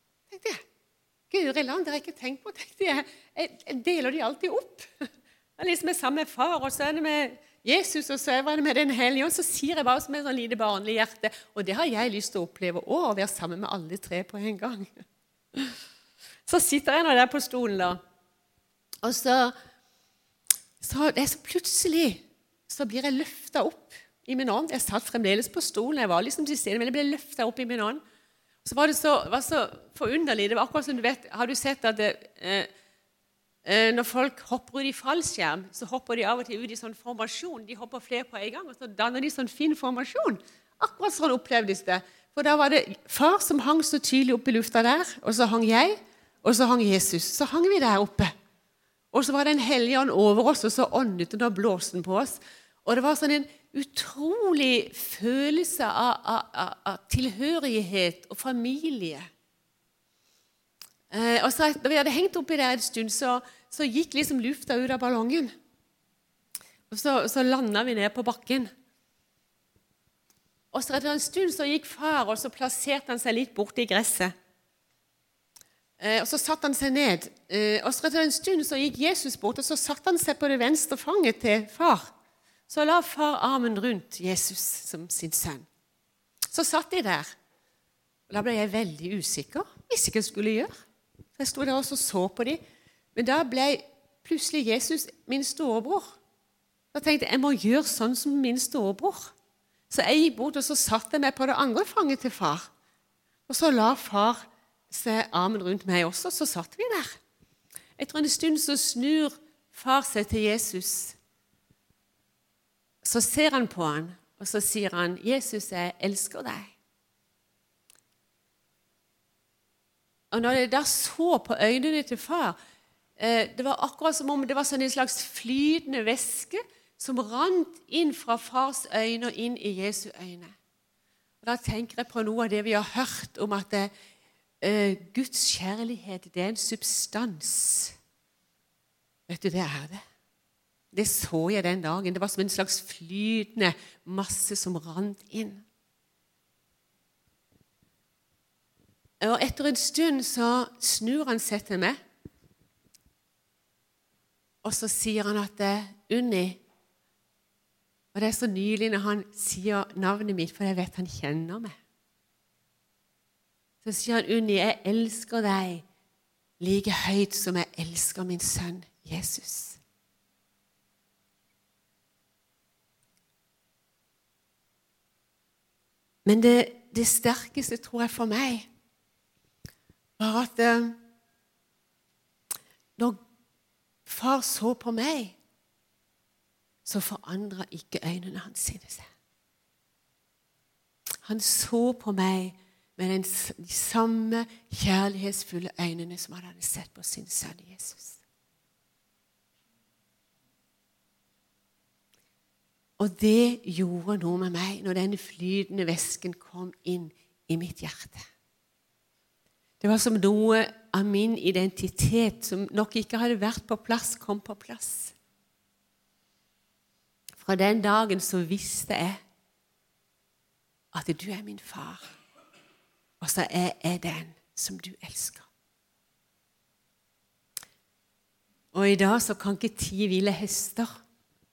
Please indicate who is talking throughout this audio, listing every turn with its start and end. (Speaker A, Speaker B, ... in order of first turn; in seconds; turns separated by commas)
Speaker A: 0.3-0.6, Speaker A: 1.3-5.1, Speaker A: 5.6-14.9, Speaker A: 16.5-18.0, Speaker A: 19.0-19.5, Speaker A: 20.8-28.0, Speaker A: 28.6-32.7, Speaker A: 33.6-48.3, Speaker A: 49.1-59.3, Speaker A: 61.1-65.5, Speaker A: 66.9-68.7, Speaker A: 70.7-74.3, Speaker A: 76.0-82.1, Speaker A: 82.7-85.7, Speaker A: 86.5-87.3, Speaker A: 88.3-90.7, Speaker A: 91.4-92.6, Speaker A: 93.2-96.2, Speaker A: 96.9-99.3, Speaker A: 99.9-102.7, Speaker A: 103.5-107.2, Speaker A: 108.0-111.2, Speaker A: 113.0-116.7, Speaker A: 120.3-122.6, Speaker A: 123.2-130.6, Speaker A: 131.4-133.9, Speaker A: 134.6-137.9, Speaker A: 139.3-140.0, Speaker A: 140.9-145.7, Speaker A: 149.2-152.0, Speaker A: 154.6-156.6, Speaker A: 158.1-161.8, Speaker A: 163.8-165.8, Speaker A: 166.6-169.8, Speaker A: 176.2-178.7, Speaker A: 180.2-181.0, Speaker A: 184.1-185.4, Speaker A: 186.8-189.1, Speaker A: 191.2-198.2, Speaker A: 203.0-208.3, Speaker A: 209.8-215.2, Speaker A: 217.4-219.2, Speaker A: 220.9-222.1, Speaker A: 223.2-225.5, Speaker A: 228.7-231.0